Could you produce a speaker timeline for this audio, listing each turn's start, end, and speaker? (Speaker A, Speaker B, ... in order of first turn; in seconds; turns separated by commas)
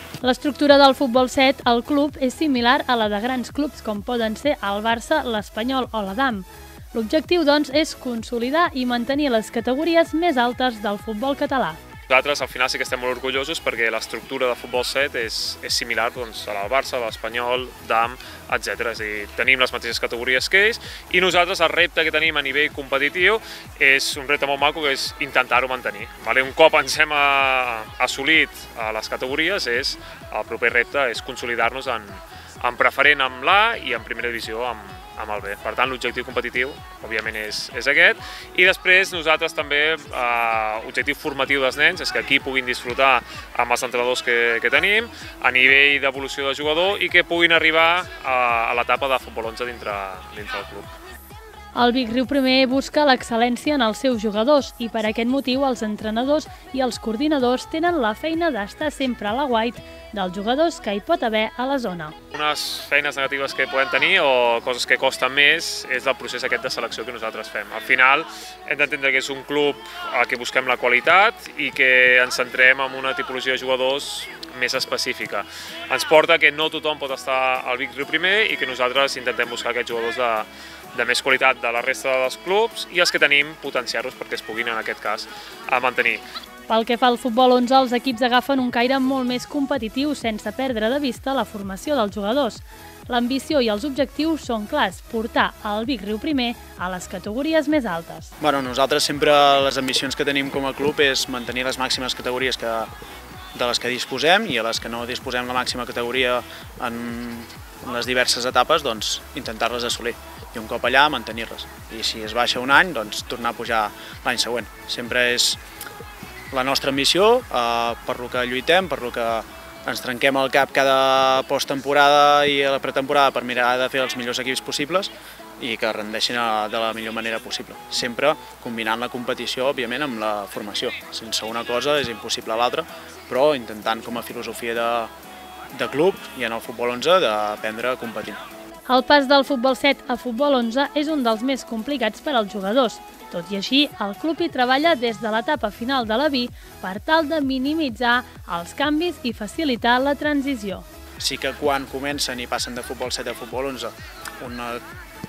Speaker A: 0.2-11.8, Speaker B: 12.1-51.0, Speaker A: 51.8-62.2, Speaker B: 62.3-86.2, Speaker A: 86.7-98.3, Speaker C: 98.4-102.9, Speaker C: 103.5-115.6, Speaker C: 116.5-135.1, Speaker C: 135.7-138.4, Speaker A: 138.9-150.9, Speaker C: 151.2-154.8